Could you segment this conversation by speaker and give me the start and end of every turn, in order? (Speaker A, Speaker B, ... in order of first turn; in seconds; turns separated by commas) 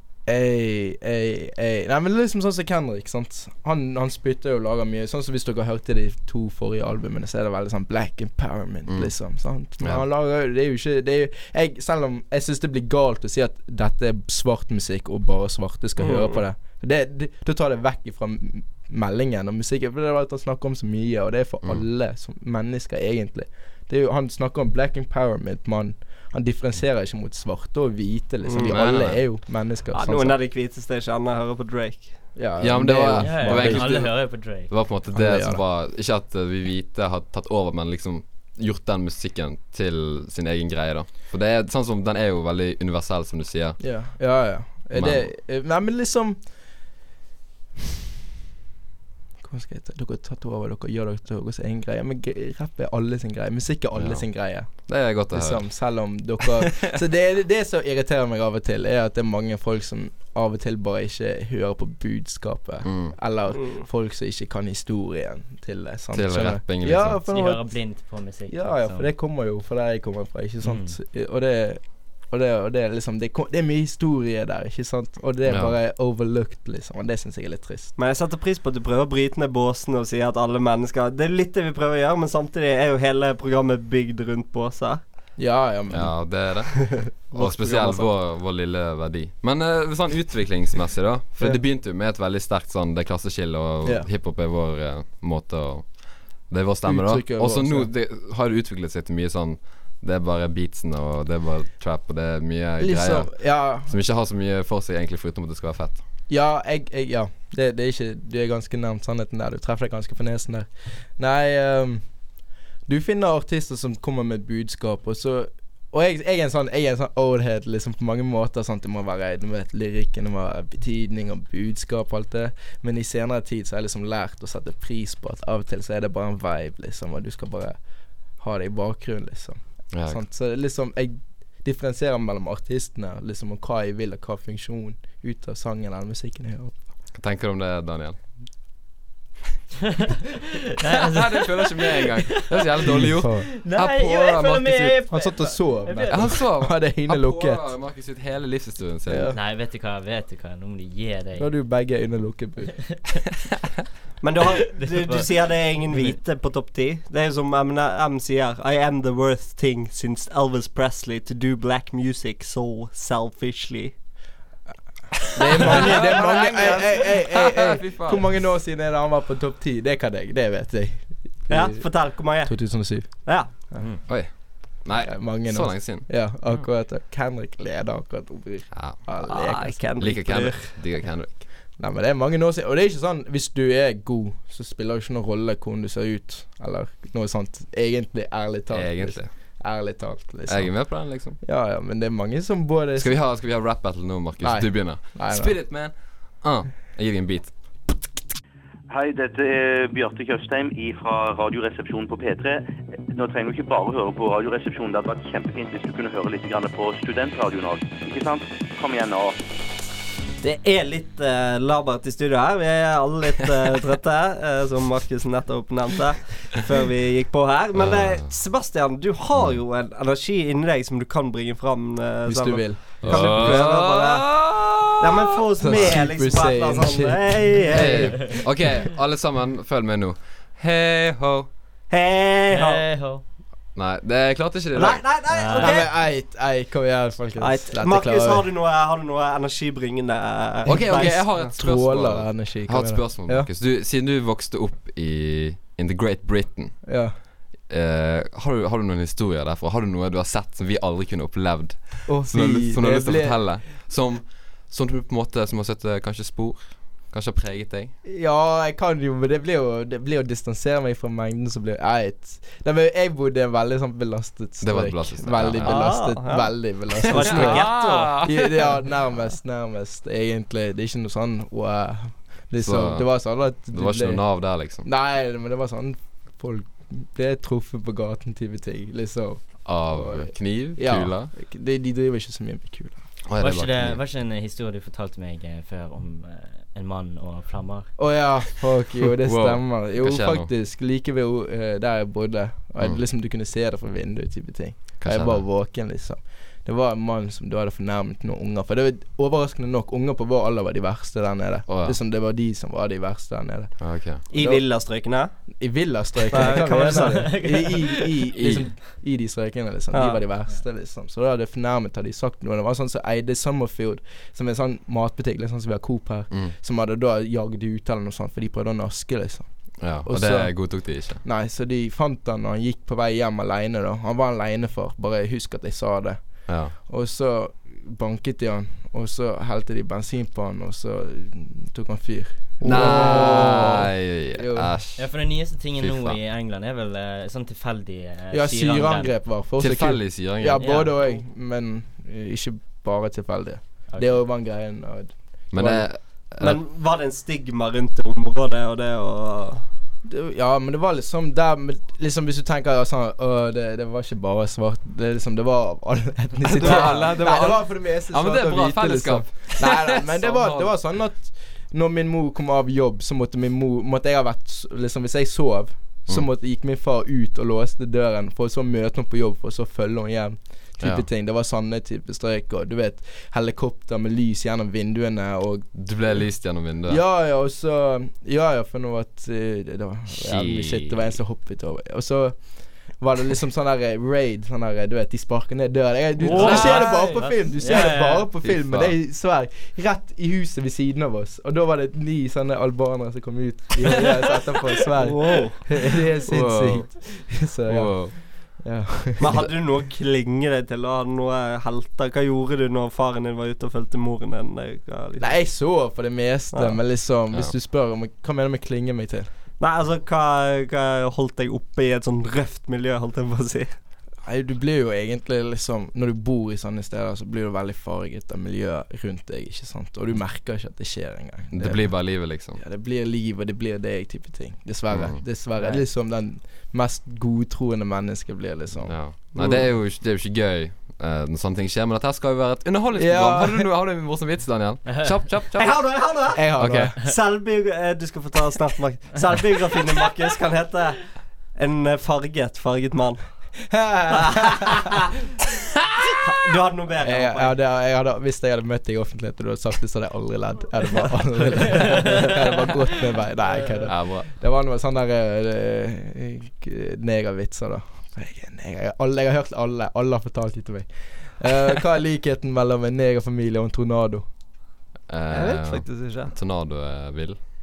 Speaker A: 0.3-30.4, Speaker B: 8.9-9.1, Speaker C: 16.0-16.4, Speaker C: 28.4-28.8, Speaker B: 28.6-29.2, Speaker C: 29.9-32.4, Speaker A: 32.4-34.1, Speaker B: 32.6-43.8, Speaker D: 33.2-34.7, Speaker A: 35.1-35.6, Speaker A: 43.8-46.5, Speaker B: 44.9-45.3, Speaker A: 49.4-67.7, Speaker B: 53.9-56.8, Speaker B: 62.8-63.1, Speaker B: 66.1-67.2, Speaker D: 67.3-69.1, Speaker A: 68.5-77.9, Speaker D: 70.6-70.9, Speaker B: 75.5-75.7, Speaker C: 78.0-85.0, Speaker A: 85.4-86.6, Speaker B: 85.9-106.0, Speaker C: 87.3-88.1, Speaker A: 93.8-94.1, Speaker A: 96.8-97.9, Speaker A: 102.8-103.9, Speaker A: 106.3-112.1, Speaker A: 112.9-127.8, Speaker A: 128.4-136.9, Speaker B: 129.9-130.2, Speaker B: 137.1-138.4, Speaker D: 140.8-142.7, Speaker B: 141.1-145.0, Speaker A: 142.8-143.5, Speaker D: 143.6-146.4, Speaker A: 145.1-147.7, Speaker B: 146.1-149.3, Speaker A: 149.1-149.4, Speaker D: 149.3-151.5, Speaker A: 151.4-153.0, Speaker C: 154.2-163.9, Speaker D: 154.7-156.2, Speaker A: 165.3-179.9, Speaker B: 165.6-168.3, Speaker C: 165.6-166.8, Speaker C: 171.5-173.5, Speaker B: 174.1-176.3, Speaker B: 178.7-179.0, Speaker C: 179.2-180.7, Speaker B: 180.0-181.4, Speaker A: 181.8-193.1, Speaker B: 188.7-189.3, Speaker B: 190.5-191.4, Speaker B: 193.0-197.6, Speaker A: 194.4-195.6, Speaker E: 198.9-209.4, Speaker C: 210.4-224.3, Speaker B: 217.7-218.3, Speaker A: 222.3-223.8, Speaker B: 223.0-226.0, Speaker C: 225.0-228.4, Speaker A: 225.6-227.9, Speaker B: 227.7-231.5, Speaker C: 231.9-232.8, Speaker D: 232.5-233.2, Speaker B: 233.7-235.1, Speaker C: 234.7-235.9, Speaker D: 235.3-235.8, Speaker A: 235.6-238.5, Speaker C: 237.4-241.5, Speaker A: 240.7-243.5, Speaker B: 240.7-247.0, Speaker A: 246.8-247.1, Speaker B: 247.7-257.9, Speaker A: 252.1-253.5, Speaker A: 258.0-283.0, Speaker B: 264.6-266.0, Speaker C: 265.6-268.2, Speaker B: 267.2-268.6, Speaker B: 272.6-274.9, Speaker B: 279.6-281.3, Speaker B: 283.3-284.0, Speaker D: 283.4-287.9, Speaker A: 288.0-304.6, Speaker B: 289.2-290.5, Speaker B: 295.0-295.4, Speaker B: 301.7-302.0, Speaker B: 303.8-304.2, Speaker C: 304.3-305.3, Speaker A: 305.4-334.7, Speaker C: 306.3-307.4, Speaker D: 306.3-308.7, Speaker B: 308.3-308.7, Speaker C: 309.9-310.2, Speaker B: 319.8-321.2, Speaker B: 326.5-326.7, Speaker B: 332.6-336.2, Speaker D: 335.0-339.1, Speaker A: 338.3-345.9, Speaker B: 339.6-340.7, Speaker D: 340.6-340.9, Speaker D: 343.9-344.2, Speaker B: 345.5-346.6, Speaker C: 346.4-349.6, Speaker A: 350.1-375.9, Speaker B: 356.4-360.7, Speaker C: 356.6-357.1, Speaker B: 375.7-377.0, Speaker A: 376.9-399.5, Speaker B: 380.2-381.2, Speaker C: 386.2-387.1, Speaker D: 386.2-388.3, Speaker B: 386.3-387.0, Speaker B: 388.4-388.9, Speaker C: 395.0-395.6, Speaker B: 396.3-398.2, Speaker C: 399.2-405.3, Speaker A: 405.2-409.3, Speaker C: 409.6-413.7, Speaker A: 414.2-429.0, Speaker B: 421.5-422.6, Speaker B: 424.9-425.2, Speaker D: 425.6-425.8, Speaker B: 428.9-436.9, Speaker C: 429.4-429.6, Speaker A: 432.9-433.7, Speaker D: 434.9-435.1, Speaker C: 435.6-443.3, Speaker A: 436.3-437.0, Speaker A: 443.7-444.9, Speaker C: 444.1-445.1, Speaker C: 446.2-447.5, Speaker A: 447.0-464.3, Speaker B: 453.9-454.3, Speaker B: 465.1-467.4, Speaker C: 465.3-466.3